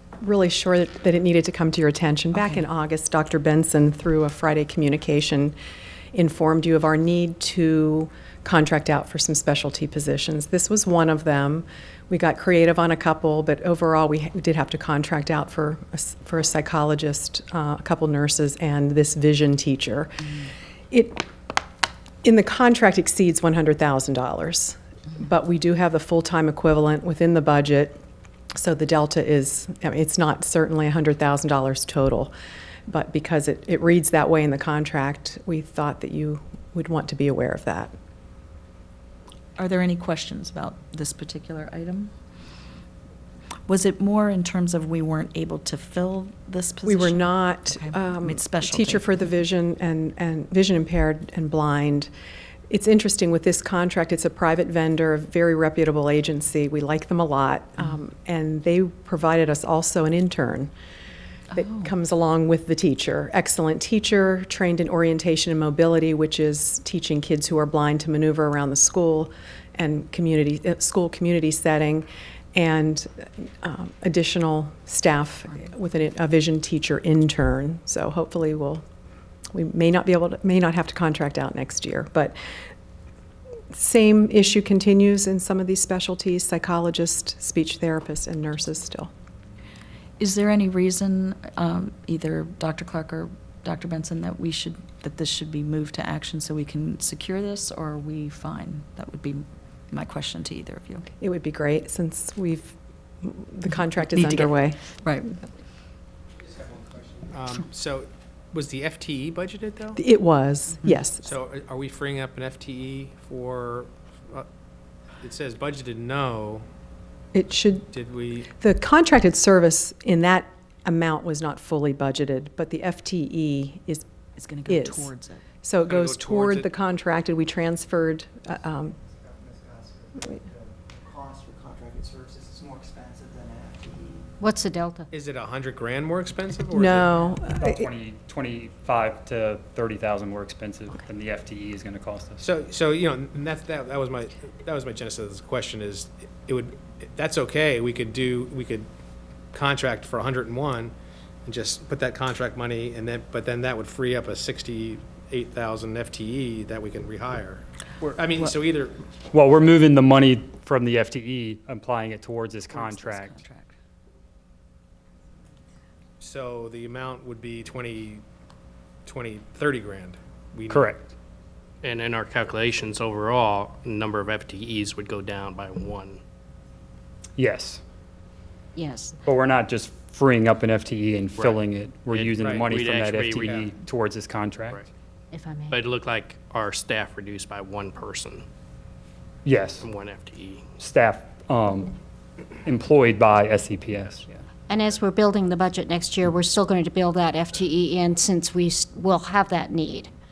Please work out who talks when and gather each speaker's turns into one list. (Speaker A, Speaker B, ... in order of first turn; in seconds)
Speaker A: 0.2-5.5, 6.1-21.3, 22.2-28.0, 28.5-32.3, 32.9-37.9, 46.9-52.1, 52.7-60.7, 61.5-78.8, 79.5-82.3, 83.7-89.1, 101.2-104.8, 110.0-111.2, 117.3-117.9, 118.5-124.0, 124.7-125.1, 125.6-128.9, 136.7-137.9
Speaker B: 2.3-2.6, 39.6-42.1, 43.7-49.0, 61.5-61.9, 90.2-101.1, 104.1-105.3, 124.4-125.4, 162.7-163.7
Speaker C: 106.7-107.2, 129.4-130.4, 131.1-134.2
Speaker D: 107.3-110.0, 111.2-114.5, 115.2-116.7, 117.9-118.5, 125.9-126.7, 135.1-137.3, 142.4-148.9, 149.5-150.9, 151.4-159.0, 166.2-168.2, 169.1-171.0
Speaker E: 134.4-135.1, 178.8-179.2, 185.3-185.8, 194.7-200.1
Speaker F: 137.5-142.4, 159.3-163.4, 170.7-171.0, 177.4-177.8, 179.2-184.8, 189.4-189.8, 190.8-191.9, 192.6-194.3
Speaker G: 171.8-176.2, 182.1-183.7, 185.7-188.4, 189.8-190.7